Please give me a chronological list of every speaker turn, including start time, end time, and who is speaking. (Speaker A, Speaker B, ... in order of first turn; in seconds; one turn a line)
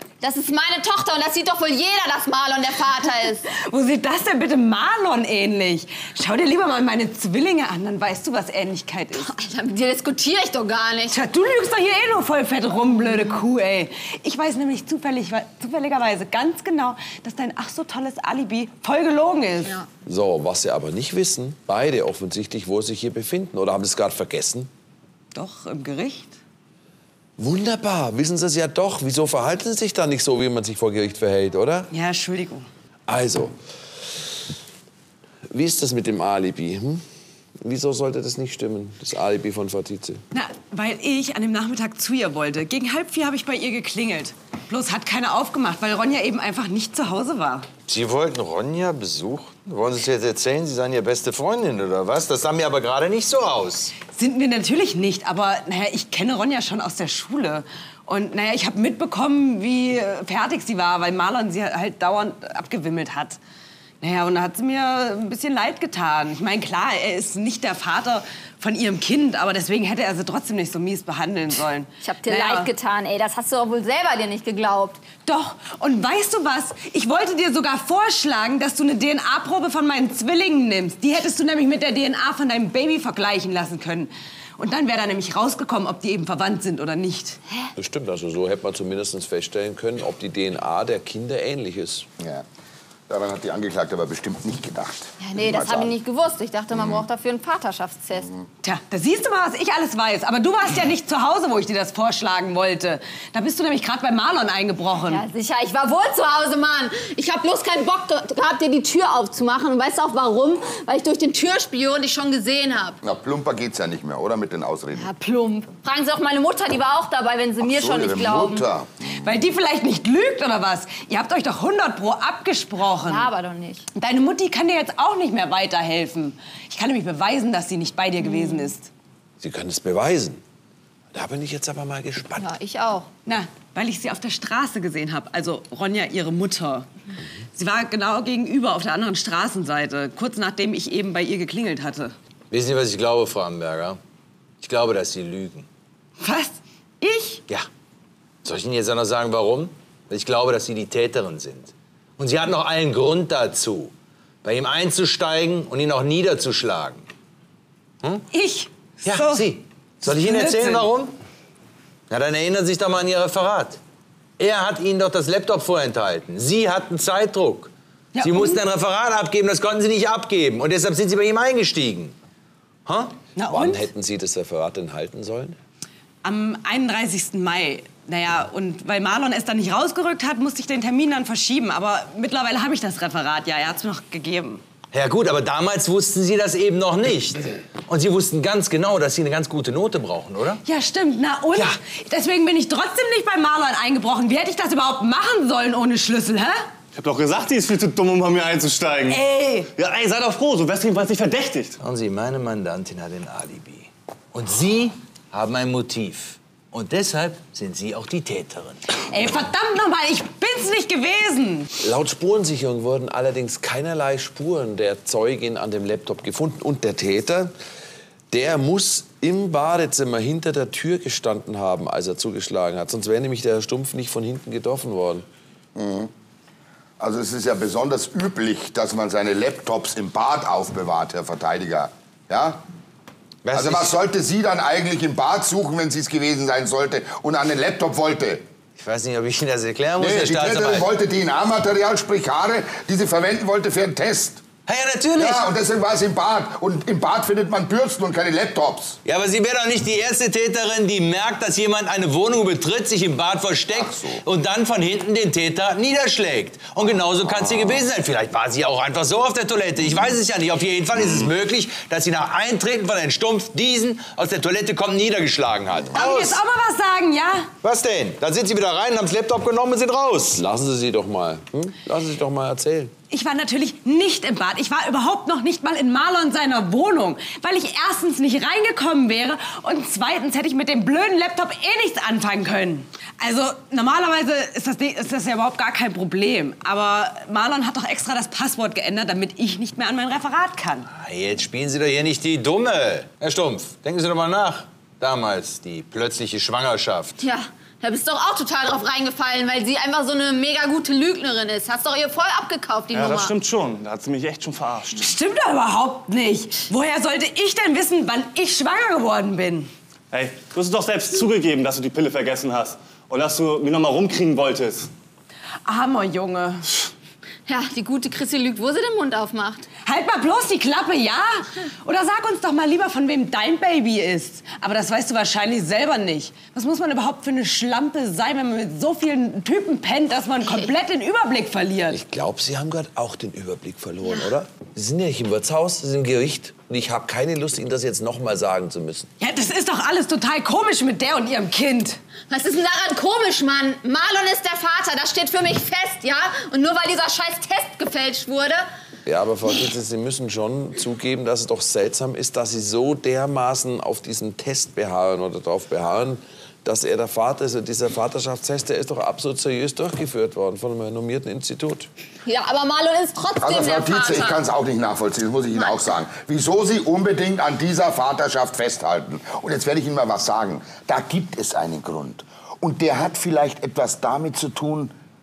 Speaker A: 0.2-3.5
Speaker B: 3.5-9.3
Speaker A: 9.2-11.2
Speaker B: 11.1-19.8
Speaker C: 20.1-24.7
Speaker B: 25.3-26.4
Speaker C: 27.4-31.9
Speaker B: 31.9-32.7
Speaker C: 33.1-33.5
Speaker C: 35.5-37.0
Speaker C: 37.6-40.2
Speaker B: 40.3-47.7
Speaker D: 47.9-53.9
Speaker B: 54.1-63.4
Speaker B: 64.0-72.7
Speaker A: 72.0-75.0
Speaker B: 75.2-87.4
Speaker C: 87.8-92.1
Speaker E: 92.2-92.5
Speaker E: 93.1-96.0
Speaker A: 95.2-98.3
Speaker B: 98.6-105.2
Speaker A: 105.1-113.0
Speaker E: 113.0-115.1
Speaker A: 115.0-118.7
Speaker E: 117.6-119.0
Speaker B: 119.2-123.3
Speaker A: 123.0-123.9
Speaker B: 124.0-128.9
Speaker A: 128.3-128.7
Speaker C: 129.4-130.4
Speaker C: 131.1-132.5
Speaker A: 132.4-133.1
Speaker B: 133.3-136.9
Speaker B: 137.6-142.2
Speaker D: 142.5-144.0
Speaker D: 144.6-145.7
Speaker B: 146.2-147.4
Speaker D: 148.4-153.9
Speaker D: 154.4-157.1
Speaker B: 158.3-159.5
Speaker D: 159.1-161.1
Speaker B: 160.0-160.9
Speaker D: 162.1-163.8
Speaker D: 164.4-172.2
Speaker B: 168.2-168.6
Speaker D: 172.9-173.1
Speaker B: 173.4-173.8
Speaker C: 173.5-175.6
Speaker B: 176.2-184.6
Speaker D: 184.9-190.6
Speaker B: 190.7-196.7
Speaker F: 196.9-199.2
Speaker B: 199.1-199.7
Speaker F: 199.8-201.8
Speaker D: 201.8-208.8
Speaker B: 209.1-211.7
Speaker C: 211.8-217.5
Speaker C: 218.3-225.3
Speaker E: 225.8-226.1
Speaker E: 227.0-232.6
Speaker D: 233.4-233.9
Speaker E: 233.5-238.4
Speaker D: 238.8-240.9
Speaker E: 240.0-244.4
Speaker D: 244.7-245.4
Speaker E: 245.2-249.0
Speaker D: 249.1-266.4
Speaker E: 253.7-254.2
Speaker E: 257.3-257.8
Speaker B: 265.9-267.5
Speaker D: 267.6-270.4
Speaker C: 270.3-272.9
Speaker B: 273.1-290.9
Speaker D: 290.9-297.2
Speaker A: 297.2-303.3
Speaker F: 302.9-305.1
Speaker B: 305.0-309.7
Speaker F: 310.1-314.9
Speaker B: 315.6-316.7
Speaker A: 317.5-319.7
Speaker B: 319.9-332.0
Speaker C: 331.9-339.1
Speaker B: 339.2-342.0
Speaker A: 342.3-348.7
Speaker C: 349.1-361.9
Speaker A: 362.3-364.4
Speaker E: 363.4-374.9